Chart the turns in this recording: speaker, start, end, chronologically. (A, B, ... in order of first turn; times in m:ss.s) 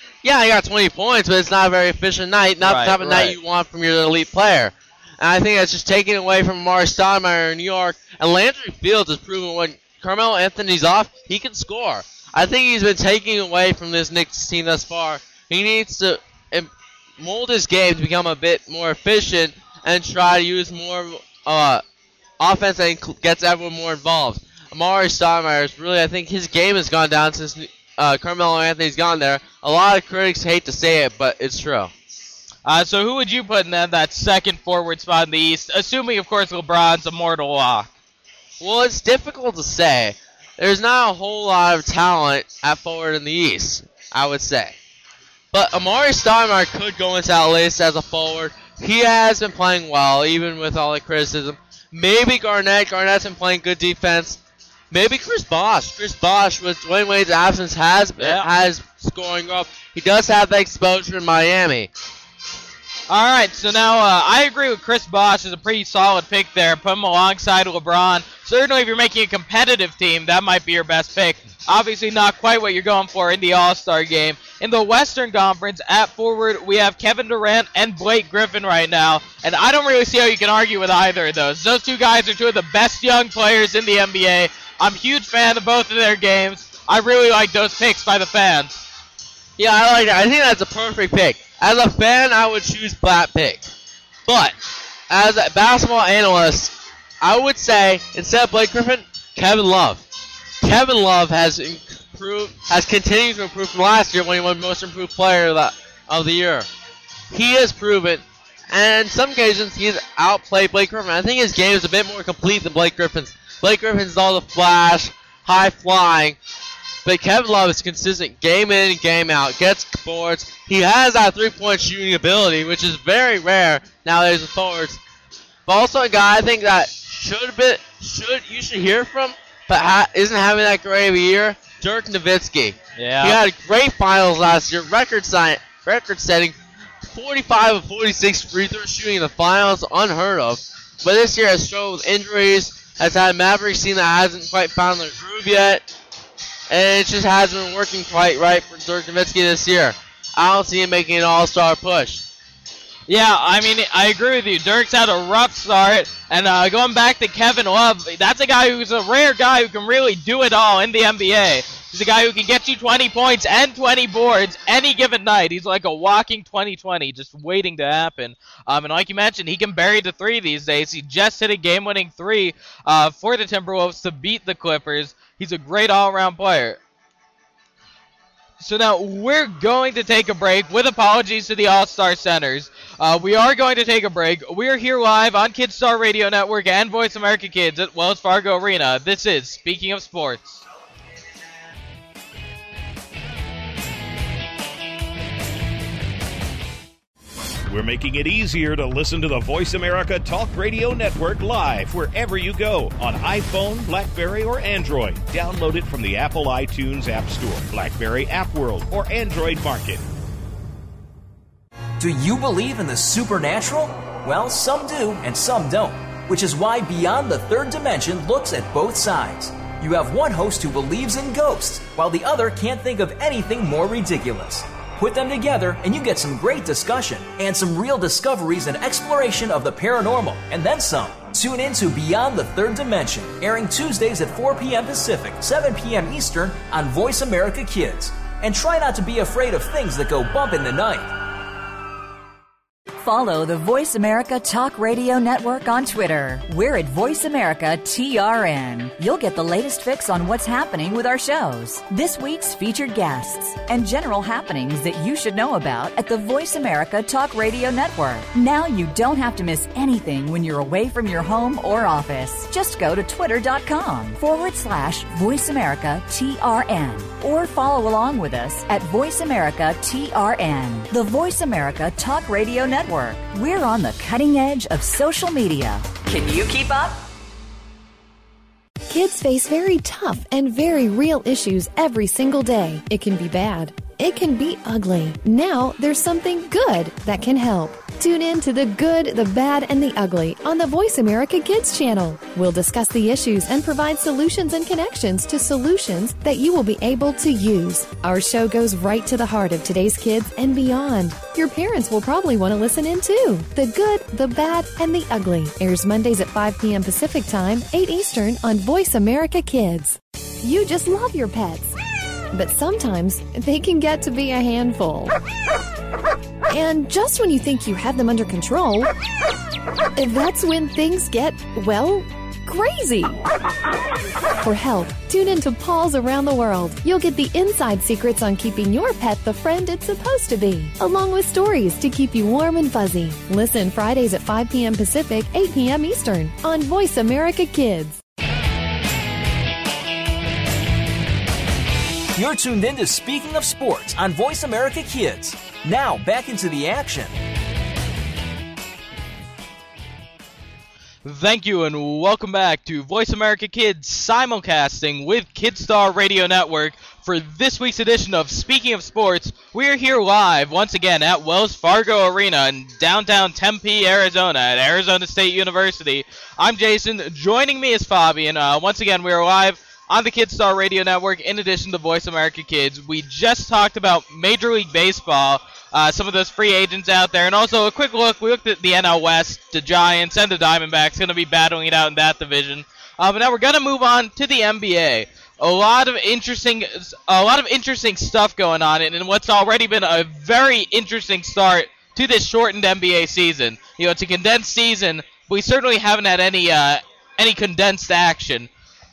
0:00.2-0:21.8 A
0:02.6-0:03.4 B
0:22.4-0:31.9 A
0:32.6-0:37.9 B
0:38.6-0:44.8 A
0:45.5-0:54.4 A
0:54.9-1:01.9 A
0:58.2-0:58.5 B
1:03.1-1:28.8 B
1:29.6-1:33.7 A
1:34.3-1:34.6 A
1:35.1-1:40.0 A
1:40.6-1:46.7 A
1:47.3-1:56.4 A
1:57.0-2:05.0 A
2:05.7-2:25.9 A
2:13.0-2:13.4 B
2:26.7-2:32.2 A
2:33.1-2:56.8 B
2:58.6-3:10.6 B
3:17.7-3:30.0 C
3:32.0-4:01.2 D
4:03.0-4:37.0 E
4:38.9-5:11.8 F
5:12.3-5:15.2 F
5:16.5-5:18.9 F
5:20.0-5:23.2 F
5:24.4-5:38.0 F
5:42.2-5:47.2 D
5:51.0-6:38.5 B